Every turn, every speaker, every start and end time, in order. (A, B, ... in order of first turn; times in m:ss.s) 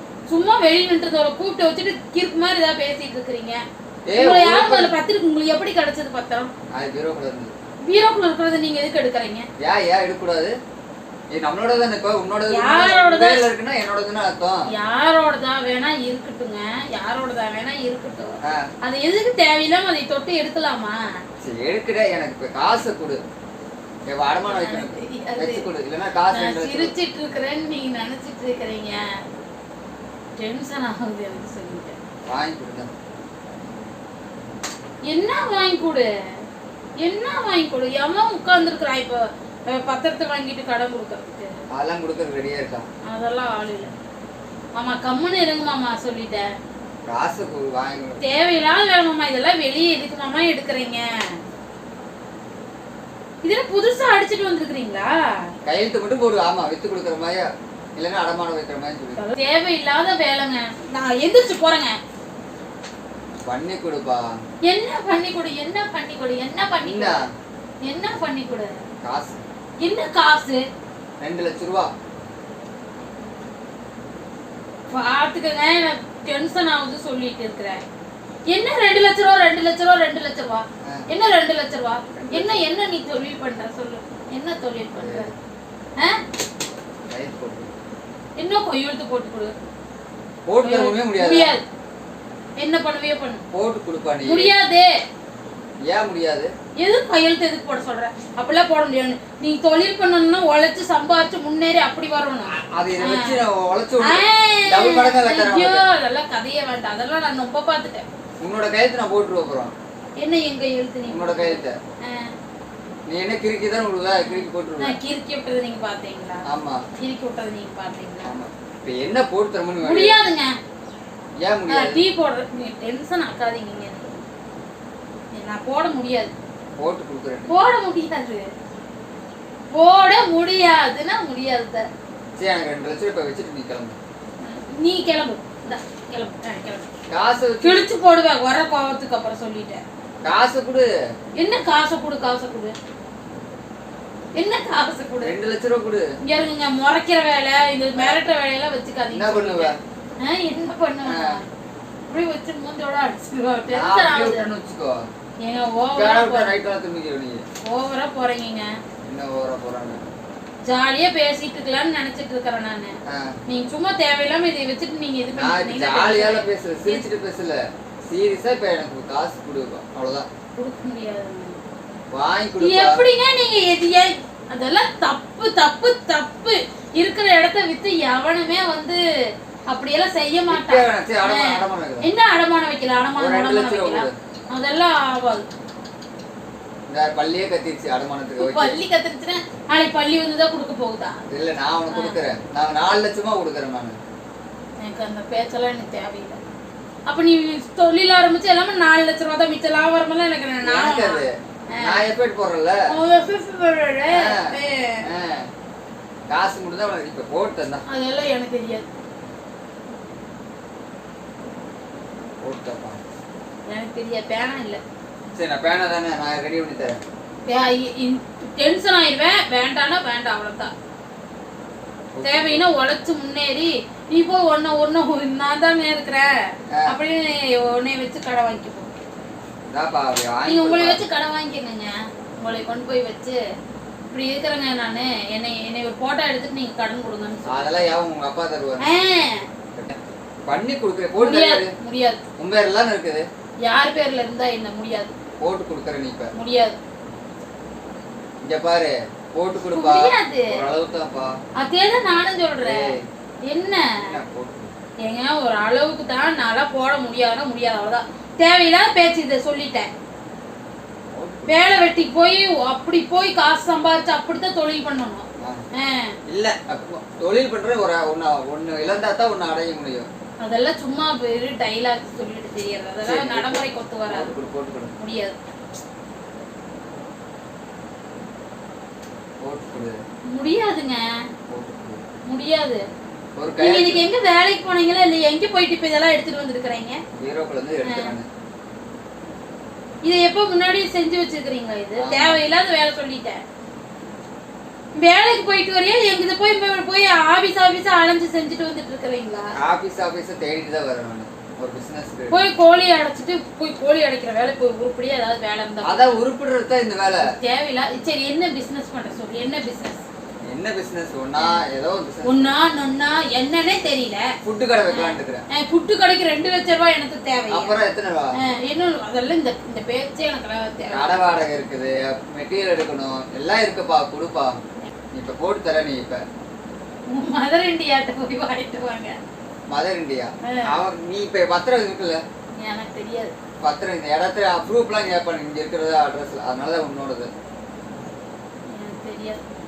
0:00.3-0:03.6 A
0:04.1-0:05.0 B
0:04.1-0:06.5 A
0:06.7-0:07.5 B
0:07.9-0:09.5 A
0:09.6-0:10.5 B
0:11.3-0:14.7 B
0:12.5-0:13.4 A
0:14.7-0:21.0 A
0:21.4-0:23.2 B
0:24.1-0:26.9 B
0:24.5-0:25.7 A
0:26.3-0:29.0 A
0:30.4-0:32.0 A
0:32.3-0:32.9 B
0:35.1-0:36.1 A
0:37.0-0:41.5 A
0:41.8-0:42.9 B
0:43.1-0:43.9 A
0:44.8-0:46.5 A
0:47.1-0:48.2 B
0:48.2-0:51.0 A
0:53.4-0:55.1 A
0:55.6-0:59.2 B
0:59.2-1:02.0 A
1:03.5-1:04.3 B
1:04.7-1:07.2 A
1:06.8-1:07.3 B
1:07.8-1:08.8 A
1:09.0-1:09.4 B
1:09.8-1:10.6 A
1:11.2-1:11.9 B
1:14.9-1:17.8 A
1:18.5-1:25.3 A
1:22.2-1:22.6 B
1:25.0-1:25.4 B
1:27.1-1:27.7 B
1:28.4-1:29.5 A
1:30.5-1:31.6 B
1:30.6-1:31.6 A
1:32.6-1:33.4 A
1:33.5-1:34.5 B
1:34.2-1:34.9 A
1:35.9-1:36.5 B
1:36.8-1:43.4 A
1:42.6-1:45.8 B
1:44.0-1:48.0 A
1:48.4-1:49.7 B
1:50.2-1:52.3 A
1:51.1-1:51.8 B
1:53.1-1:55.0 B
1:54.2-1:56.4 A
1:56.5-1:56.8 B
1:57.0-1:58.4 A
1:58.2-2:00.2 B
1:59.8-2:00.5 A
2:01.4-2:02.0 B
2:01.7-2:04.2 A
2:05.3-2:06.3 A
2:06.8-2:07.5 B
2:07.5-2:08.5 A
2:09.7-2:11.9 A
2:12.4-2:14.0 B
2:14.4-2:16.9 A
2:17.1-2:17.9 B
2:17.6-2:19.8 A
2:20.2-2:20.9 B
2:21.4-2:22.8 A
2:24.4-2:25.4 A
2:25.2-2:26.1 B
2:26.2-2:31.4 A
2:29.1-2:29.8 B
2:31.0-2:31.4 B
2:32.1-2:34.5 A
2:33.7-2:35.1 B
2:35.4-2:36.5 A
2:35.9-2:37.4 B
2:37.6-2:38.7 A
2:39.0-2:40.0 B
2:40.7-2:43.0 A
2:43.1-2:43.4 B
2:43.5-2:47.1 A
2:45.4-2:50.3 B
2:50.6-2:51.6 A
2:52.1-2:53.0 B
2:52.6-2:59.0 A
2:59.7-3:05.5 A
3:00.5-3:02.1 B
3:03.2-3:04.1 B
3:06.9-3:08.8 B
3:08.4-3:11.2 A
3:11.3-3:14.0 B
3:11.9-3:12.2 A
3:14.8-3:16.4 A
3:17.1-3:22.0 A
3:20.6-3:22.8 B
3:22.9-3:25.1 A
3:24.1-3:25.5 B
3:26.3-3:27.8 B
3:27.9-3:28.9 A
3:32.4-3:33.0 B
3:33.7-3:34.8 A
3:35.4-3:37.0 B
3:37.5-3:40.7 A
3:42.1-3:42.7 B
3:42.2-3:48.9 A
3:49.7-3:51.0 B
3:50.5-3:53.4 A
3:54.1-3:57.7 A
3:57.5-3:58.9 B
3:58.8-3:59.5 A
3:59.8-4:01.7 B
4:01.2-4:02.2 A
4:02.4-4:03.2 B
4:03.6-4:05.1 A
4:05.4-4:06.3 B
4:06.4-4:06.8 A
4:08.4-4:11.4 B
4:09.7-4:10.6 A
4:11.6-4:13.0 A
4:12.6-4:13.1 B
4:13.5-4:14.2 A
4:13.9-4:14.7 B
4:15.1-4:19.9 A
4:21.1-4:21.7 B
4:21.5-4:26.2 A
4:26.3-4:30.1 B
4:30.4-4:34.3 A
4:33.0-4:34.9 B
4:35.0-4:35.4 A
4:39.4-4:40.0 B
4:40.3-4:41.0 A
4:41.5-4:42.0 B
4:42.3-4:42.8 A
4:43.4-4:44.0 B
4:43.6-4:47.0 A
4:47.2-4:48.3 B
4:47.8-4:48.1 A
4:50.0-4:53.4 A
4:52.0-4:52.4 B
4:55.0-4:59.6 A
4:59.6-5:02.5 B
5:02.3-5:06.2 A
5:05.8-5:07.3 B
5:07.2-5:10.0 A
5:10.5-5:12.5 B
5:12.2-5:14.3 A
5:14.4-5:15.4 B
5:14.9-5:17.8 A
5:17.5-5:18.4 B
5:18.4-5:21.1 A
5:20.9-5:24.6 B
5:25.1-5:26.2 B
5:27.1-5:29.2 A
5:29.7-5:32.2 B
5:30.4-5:30.8 A
5:32.6-5:33.3 A
5:33.6-5:37.3 B
5:38.7-5:39.4 A